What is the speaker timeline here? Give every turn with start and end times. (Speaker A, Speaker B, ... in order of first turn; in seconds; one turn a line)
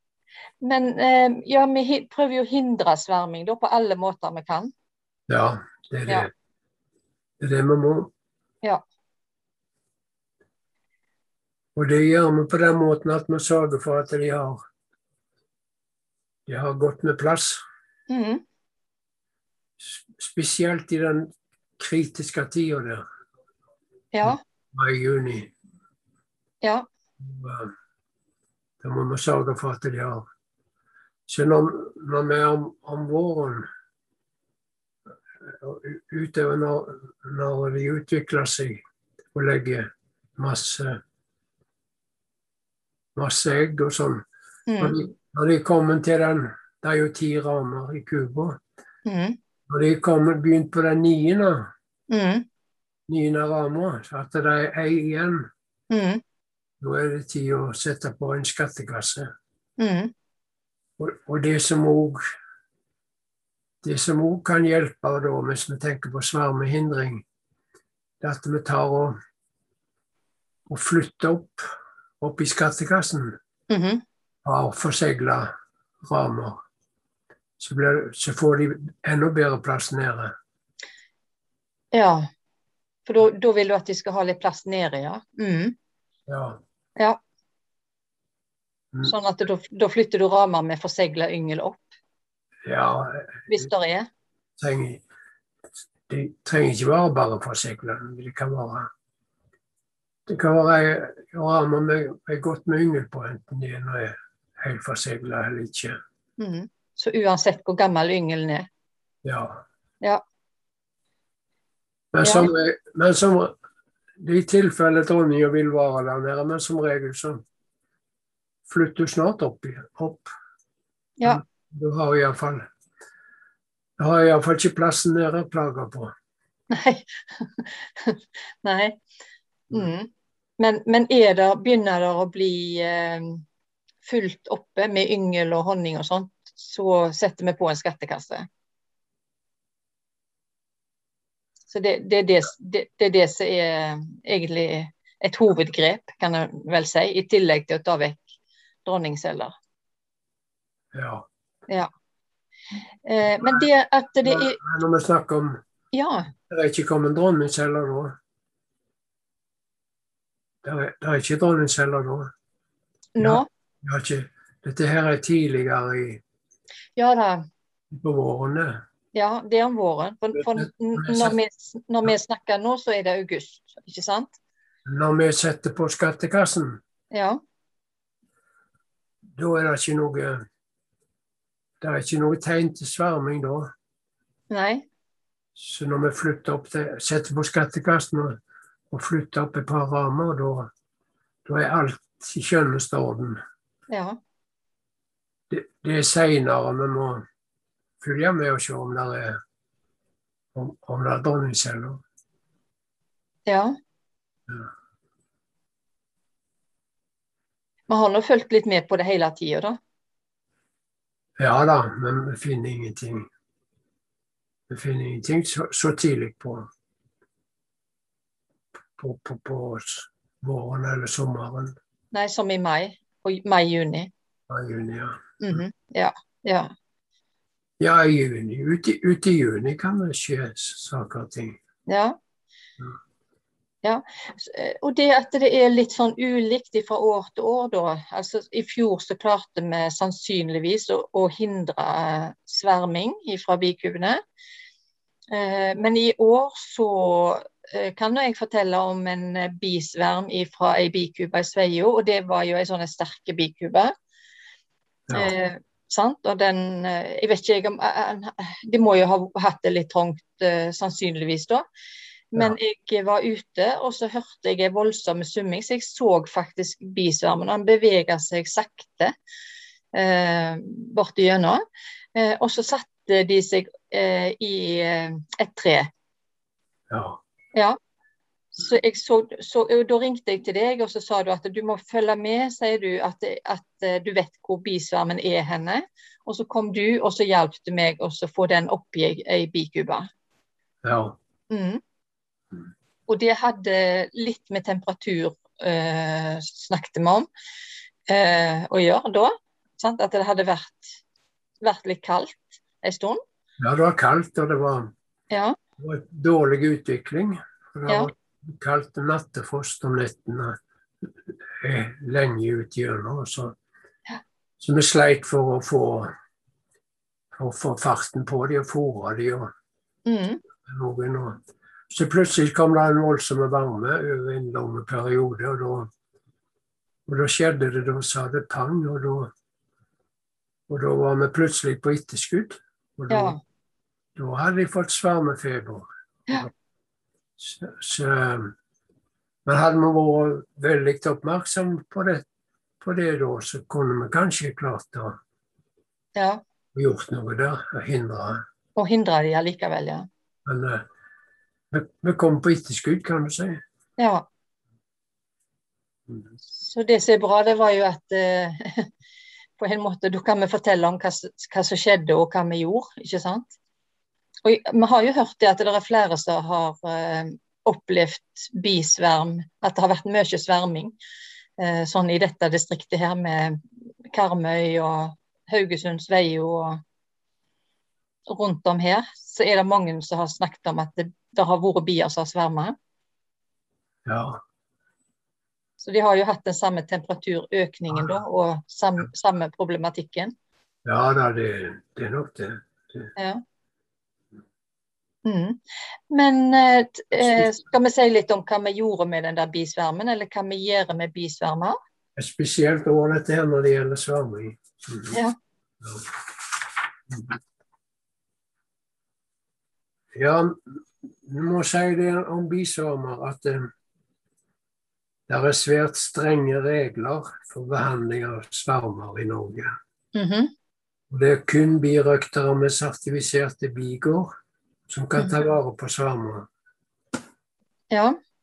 Speaker A: 0.6-4.7
Speaker B: 5.3-6.3
Speaker B: 7.4-8.1
Speaker B: 11.8-14.6
Speaker B: 16.5-17.6
Speaker A: 18.1-18.4
Speaker B: 19.8-23.0
Speaker A: 24.1-24.4
Speaker B: 24.2-25.5
Speaker A: 26.6-26.9
Speaker B: 27.2-27.7
Speaker B: 28.8-30.3
Speaker B: 31.3-33.7
Speaker B: 35.4-38.8
Speaker B: 39.3-41.0
Speaker B: 43.1-44.2
Speaker A: 44.7-45.0
Speaker B: 44.8-48.6
Speaker A: 49.1-49.4
Speaker B: 49.7-51.7
Speaker A: 52.1-52.5
Speaker B: 53.1-55.5
Speaker A: 55.9-56.2
Speaker B: 56.8-59.3
Speaker A: 59.8-60.1
Speaker B: 61.0-62.2
Speaker B: 63.8-67.2
Speaker B: 68.2-69.2
Speaker B: 70.7-71.6
Speaker B: 72.2-73.4
Speaker A: 73.7-74.0
Speaker B: 74.5-75.5
Speaker B: 76.0-76.6
Speaker B: 77.6-80.3
Speaker A: 81.9-82.3
Speaker A: 83.1-85.8
Speaker B: 86.3-86.6
Speaker A: 89.0-91.9
Speaker B: 92.7-93.7
Speaker A: 93.5-94.1
Speaker B: 94.6-95.0
Speaker B: 96.1-98.9
Speaker B: 100.3-106.0
Speaker A: 106.4-108.7
Speaker B: 109.2-109.6
Speaker B: 112.1-113.5
Speaker A: 112.2-112.5
Speaker B: 114.2-117.4
Speaker B: 118.7-120.3
Speaker B: 121.2-122.7
Speaker B: 124.0-126.1
Speaker A: 126.7-129.0
Speaker A: 129.7-133.4
Speaker A: 134.1-138.5
Speaker A: 141.7-148.3
Speaker A: 148.8-149.5
Speaker B: 150.9-151.3
Speaker A: 153.1-154.6
Speaker B: 153.4-153.7
Speaker B: 154.2-155.6
Speaker A: 155.9-156.3
Speaker B: 156.5-158.2
Speaker B: 160.6-162.3
Speaker A: 163.2-163.5
Speaker B: 163.2-166.2
Speaker A: 167.0-167.5
Speaker B: 167.9-168.8
Speaker A: 169.1-174.3
Speaker B: 170.3-171.3
Speaker B: 174.9-176.8
Speaker A: 177.1-177.4
Speaker B: 179.4-180.4
Speaker B: 181.8-183.7
Speaker A: 184.5-184.9
Speaker B: 185.6-188.4
Speaker B: 188.9-190.7
Speaker B: 191.5-193.4
Speaker A: 193.9-194.2
Speaker B: 195.5-197.2
Speaker B: 198.0-199.4
Speaker B: 200.6-202.0
Speaker A: 203.5-203.8
Speaker A: 207.9-209.8
Speaker B: 211.4-213.3
Speaker B: 214.7-216.7
Speaker B: 219.0-221.8
Speaker A: 222.1-224.1
Speaker B: 224.5-225.6
Speaker A: 225.4-226.7
Speaker B: 227.8-231.6
Speaker A: 231.9-232.2
Speaker A: 233.8-244.2
Speaker A: 245.3-253.9
Speaker A: 255.1-261.6
Speaker A: 262.3-269.1
Speaker A: 269.9-271.6
Speaker A: 272.1-275.9
Speaker B: 276.9-277.2
Speaker A: 278.6-290.1
Speaker B: 290.8-291.2
Speaker A: 291.5-291.8
Speaker A: 293.1-297.3
Speaker A: 298.1-301.0
Speaker A: 301.6-303.2
Speaker B: 303.6-304.9
Speaker A: 305.3-305.6
Speaker B: 305.8-310.6
Speaker B: 311.6-313.6
Speaker B: 314.6-316.1
Speaker B: 317.3-319.5
Speaker A: 320.1-320.4
Speaker B: 320.6-321.4
Speaker B: 321.9-325.9
Speaker B: 327.1-329.3
Speaker B: 330.7-333.4
Speaker A: 333.1-333.4
Speaker B: 334.2-336.5
Speaker B: 337.4-338.5
Speaker B: 339.5-342.2
Speaker B: 342.8-345.2
Speaker A: 346.2-346.4
Speaker B: 346.8-348.4
Speaker A: 348.8-350.1
Speaker B: 350.5-350.9
Speaker B: 351.7-353.6
Speaker A: 354.0-354.3
Speaker A: 356.6-358.9
Speaker A: 359.6-363.5
Speaker A: 364.4-370.9
Speaker A: 371.6-373.6
Speaker A: 374.1-376.8
Speaker A: 378.3-382.8
Speaker B: 384.1-384.4
Speaker A: 385.8-390.3
Speaker B: 390.9-393.1
Speaker A: 393.2-393.4
Speaker A: 395.2-395.6
Speaker A: 396.1-401.8
Speaker B: 397.2-397.5
Speaker B: 402.2-405.2
Speaker B: 405.8-407.4
Speaker B: 410.1-413.7
Speaker B: 415.3-419.7
Speaker A: 420.1-420.5
Speaker B: 421.1-424.3
Speaker B: 424.9-426.5
Speaker A: 427.9-428.2